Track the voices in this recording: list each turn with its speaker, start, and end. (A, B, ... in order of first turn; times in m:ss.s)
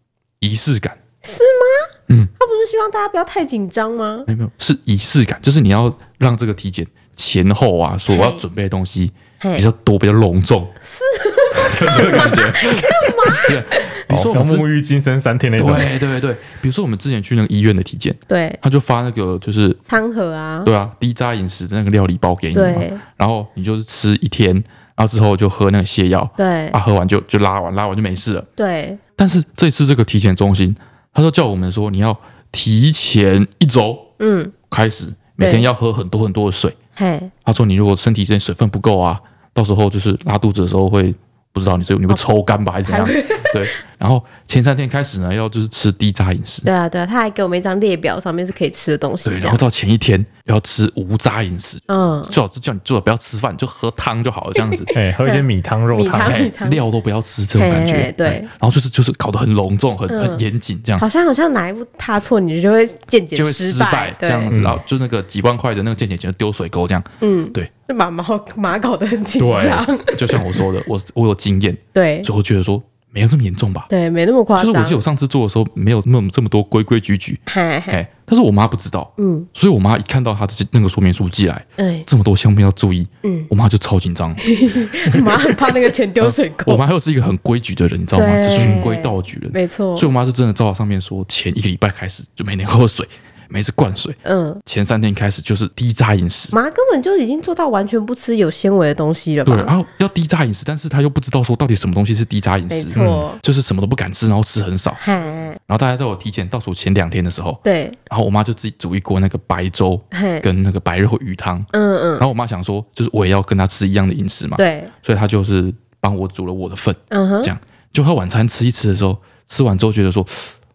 0:00.4-0:01.0 A
0:01.2-0:04.3 B
0:04.3-0:10.7 A
0:08.1-0:08.4 B
0:10.8-0:13.9 B
0:11.5-0:14.7 A
0:14.1-0:15.9 C
0:15.6-0:19.8 A
0:18.3-0:18.6 B
0:19.9-0:20.7 B
0:20.6-0:28.5 A
0:22.5-0:23.0 B
0:26.4-0:26.8 B
0:28.6-0:29.0 B
0:29.2-0:34.1 A
0:34.2-0:34.5 B
0:34.7-0:36.8 A
0:35.4-0:35.7 B
0:37.0-0:37.3 B
0:37.4-0:46.7 A
0:42.8-0:43.6 B
0:46.6-0:49.6 B
0:49.2-0:54.9 A
0:51.9-0:52.4 B
0:54.6-0:56.8 B
0:54.9-0:56.5 C
0:56.1-1:01.0 A
0:57.6-0:58.5 B
1:00.1-1:00.4 B
1:01.0-1:04.5 B
1:03.4-1:07.7 A
1:04.5-1:04.8 C
1:07.2-1:10.4 B
1:09.4-1:13.9 A
1:11.9-1:12.3 B
1:13.9-1:15.0 B
1:14.6-1:25.5 A
1:17.5-1:18.0 B
1:19.2-1:19.5 B
1:21.8-1:22.1 B
1:23.2-1:23.5 B
1:24.4-1:26.8 B
1:26.2-1:36.6 A
1:28.2-1:30.1 B
1:34.2-1:34.6 B
1:36.5-1:39.7 B
1:39.4-1:45.0 A
1:42.7-1:43.4 B
1:43.0-1:43.2 C
1:45.0-1:45.6 B
1:45.7-2:00.6 A
1:47.6-1:48.0 B
1:50.1-1:50.4 B
1:51.7-1:52.3 B
1:54.6-1:54.9 B
1:57.1-1:57.5 B